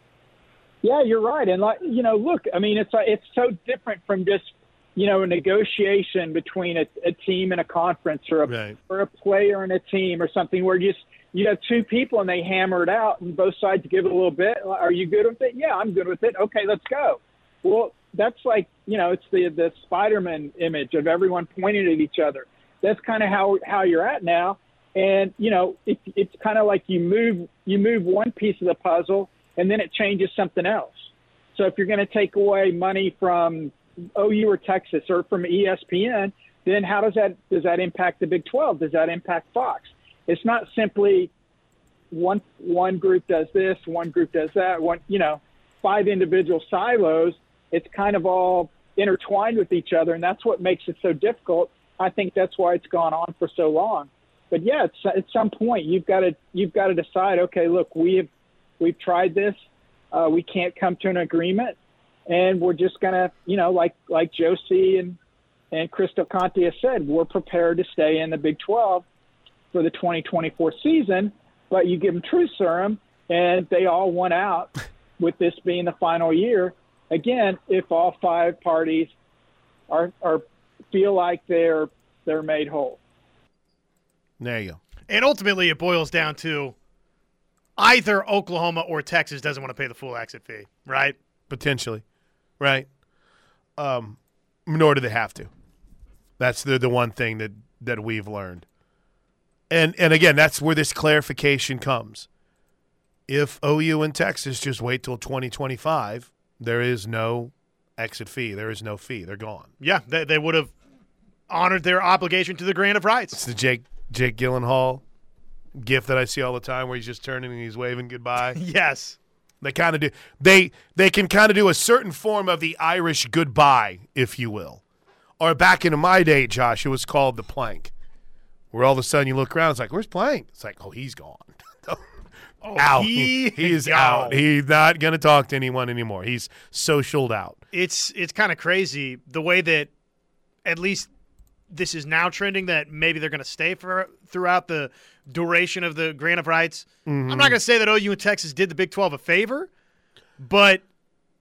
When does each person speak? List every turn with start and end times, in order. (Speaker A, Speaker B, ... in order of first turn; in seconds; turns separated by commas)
Speaker A: 0.8-41.3, Speaker B: 8.5-8.8, Speaker A: 42.1-58.3, Speaker A: 58.8-59.6, Speaker A: 60.1-61.8, Speaker A: 62.3-65.2, Speaker A: 65.7-69.0, Speaker A: 69.7-79.1, Speaker A: 79.9-83.0, Speaker B: 84.4-84.8, Speaker C: 85.1-86.8, Speaker C: 87.8-91.2, Speaker B: 91.5-92.0, Speaker B: 92.6-92.9, Speaker B: 93.8-95.5, Speaker B: 96.4-98.7, Speaker B: 99.7-102.3, Speaker B: 103.3-109.7, Speaker C: 109.8-110.7, Speaker C: 111.5-113.4, Speaker B: 113.3-115.0, Speaker B: 115.8-118.6, Speaker C: 118.5-119.2, Speaker B: 119.6-124.8, Speaker B: 125.4-127.9, Speaker B: 128.7-132.0, Speaker C: 132.6-134.4, Speaker B: 132.8-137.6, Speaker C: 137.7-139.9, Speaker C: 140.6-141.1, Speaker C: 141.7-149.7, Speaker B: 147.1-147.6, Speaker C: 150.4-150.8